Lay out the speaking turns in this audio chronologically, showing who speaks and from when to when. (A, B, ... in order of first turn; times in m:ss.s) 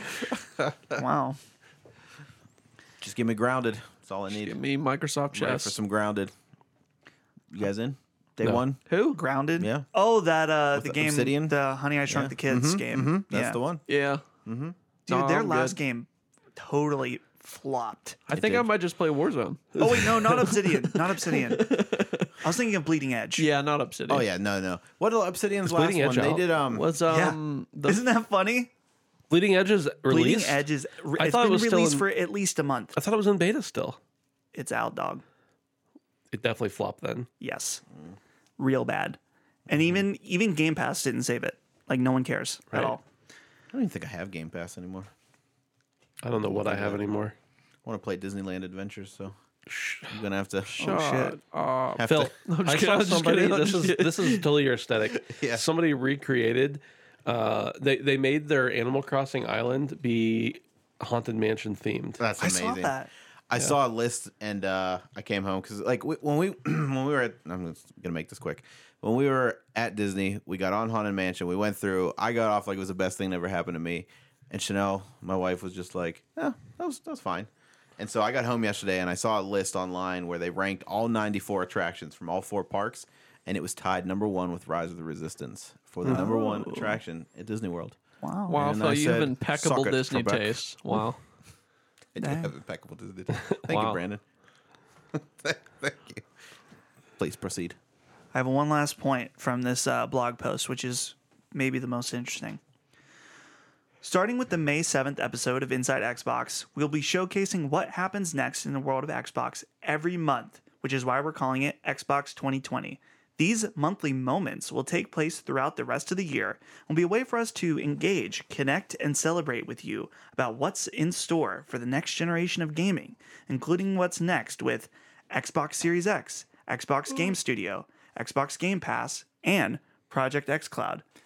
0:01.0-0:01.4 A
0:03.0-0:04.6 B
0:04.3-0:05.8 C
0:05.3-0:06.3 B
0:07.5-0:08.8 B
0:08.9-0:09.2 C
0:09.1-0:13.6 A
0:09.6-0:09.8 B
0:10.7-0:13.8 B
0:13.9-0:14.2 C
0:14.4-0:14.8 B
0:15.1-0:18.2 A
0:15.1-0:15.8 C
0:18.3-0:22.4 C
0:18.4-0:18.7 B
0:19.8-0:23.5 A
0:23.4-0:24.3 C
0:24.1-0:26.9 B
0:25.6-0:26.5 D
0:26.7-0:28.0 C
0:27.1-0:28.7 A
0:29.3-0:32.1 D
0:30.1-0:33.0 A
0:33.0-0:34.0 D
0:34.5-0:35.2 A
0:36.3-0:37.3 D
0:37.4-0:37.8 A
0:38.6-0:43.0 A
0:43.7-0:45.1 B
0:46.2-0:47.4 D
0:46.4-0:47.0 B
0:47.8-0:49.3 B
0:49.7-0:50.2 D
0:50.1-0:50.8 B
0:50.8-0:54.5 C
0:50.8-0:51.4 A
0:52.0-0:52.3 B
0:52.0-1:02.2 D
0:55.3-0:55.6 B
1:02.2-1:03.0 B
1:02.4-1:03.1 A
1:03.5-1:28.0 B
1:26.0-1:27.0 A
1:28.2-1:28.6 A
1:28.5-1:31.2 C
1:28.5-1:30.6 B
1:32.2-1:34.2 B
1:32.2-1:32.5 A
1:33.5-1:34.0 D
1:35.1-1:36.2 B
1:37.2-1:37.8 B
1:38.3-1:42.6 A
1:44.0-2:11.0 A